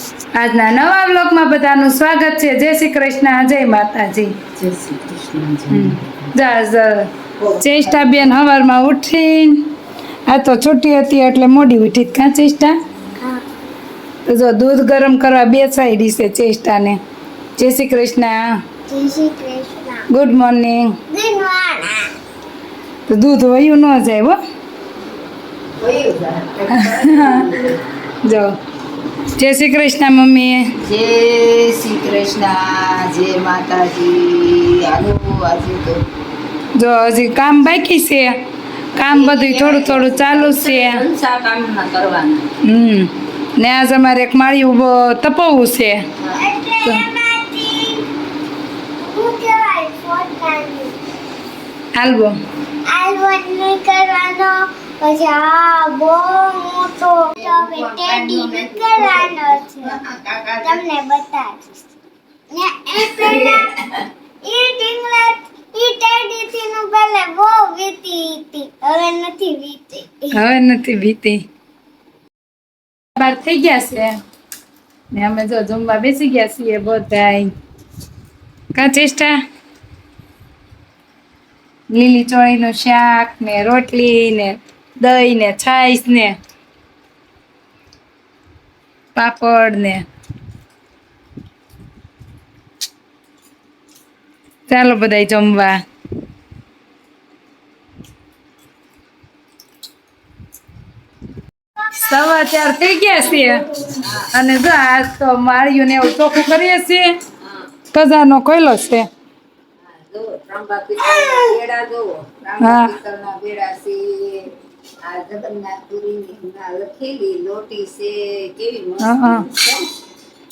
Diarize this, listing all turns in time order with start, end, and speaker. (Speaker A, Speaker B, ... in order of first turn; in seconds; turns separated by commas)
Speaker A: 0.3-4.3, Speaker B: 4.6-6.2, Speaker A: 5.7-9.7, Speaker B: 7.4-8.2, Speaker A: 10.3-12.8, Speaker C: 13.2-13.4, Speaker A: 14.2-17.0, Speaker A: 17.6-18.6, Speaker C: 18.9-20.1, Speaker A: 20.1-20.9, Speaker C: 21.1-22.0, Speaker A: 23.1-24.4, Speaker B: 25.8-27.8, Speaker A: 26.7-27.5, Speaker A: 28.2-28.5, Speaker A: 29.4-30.7, Speaker B: 30.8-36.0, Speaker A: 36.8-38.4, Speaker A: 38.9-41.0, Speaker B: 39.0-42.5, Speaker A: 42.6-46.0, Speaker C: 46.4-48.1, Speaker C: 49.0-51.0, Speaker A: 51.9-52.4, Speaker C: 52.9-60.0, Speaker B: 57.4-60.8, Speaker C: 60.6-61.7, Speaker C: 62.5-63.6, Speaker B: 63.0-64.0, Speaker C: 64.4-70.3, Speaker A: 70.3-71.4, Speaker A: 73.2-74.2, Speaker A: 75.1-77.5, Speaker A: 78.7-79.3, Speaker A: 81.9-86.3, Speaker A: 89.1-90.0, Speaker A: 94.7-95.8, Speaker A: 101.9-103.7, Speaker A: 104.3-107.2, Speaker A: 107.9-109.1, Speaker B: 109.9-119.9, Speaker A: 112.6-112.9, Speaker A: 119.0-119.4